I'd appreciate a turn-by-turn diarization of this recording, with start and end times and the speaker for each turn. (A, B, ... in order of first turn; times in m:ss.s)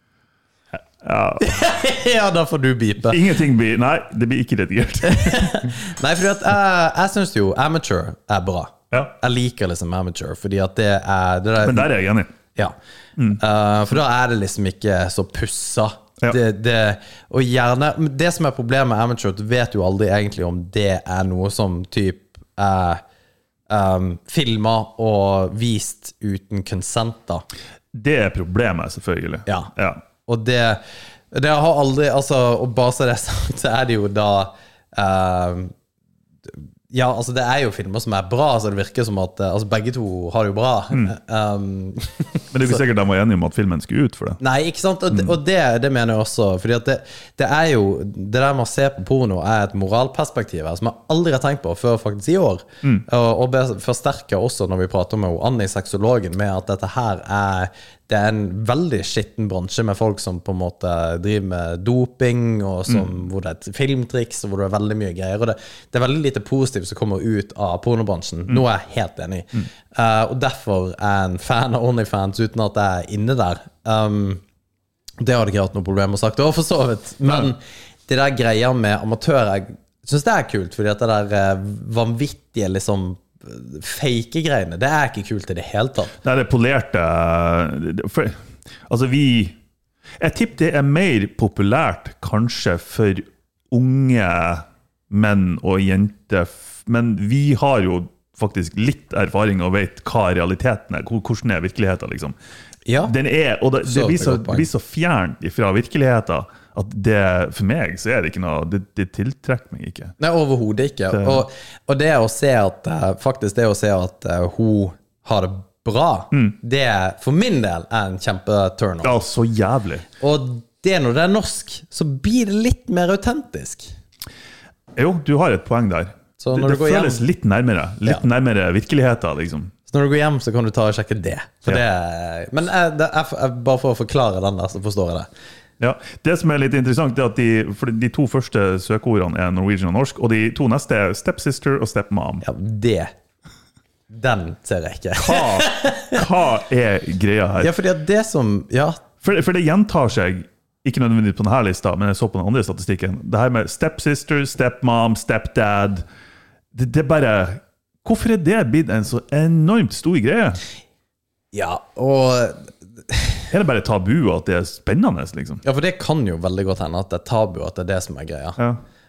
0:01.0-0:01.4 A
0:01.4-0:03.4 B
0:03.1-0:05.8 A
0:05.0-0:11.9 B
0:11.6-0:12.3 A
0:13.4-0:23.0 B
0:23.7-0:27.4 B
0:27.9-0:30.0 A
0:29.4-0:29.7 B
0:30.2-0:35.7 B
0:36.5-0:42.8 B
0:42.5-0:44.4 A
0:44.4-1:14.4 B
1:15.2-1:26.1 B
1:26.2-1:29.6 A
1:30.2-1:42.4 A
1:42.9-1:43.1 B
1:43.0-1:50.1 A
1:43.8-1:44.7 B
1:50.2-1:59.2 B
1:51.1-1:51.4 A
1:59.0-2:00.1 A
2:00.2-2:03.9 B
2:05.0-2:09.7 A
2:06.4-2:07.2 B
2:09.9-2:15.3 B
2:15.8-2:22.4 A
2:22.4-2:23.1 B
2:24.1-2:26.2 B
2:25.2-2:27.7 A
2:27.6-2:29.0 B
2:29.2-2:36.0 A
2:36.7-2:40.6 A
2:41.5-2:43.5 B
2:43.5-2:45.6 A
2:45.6-2:48.6 B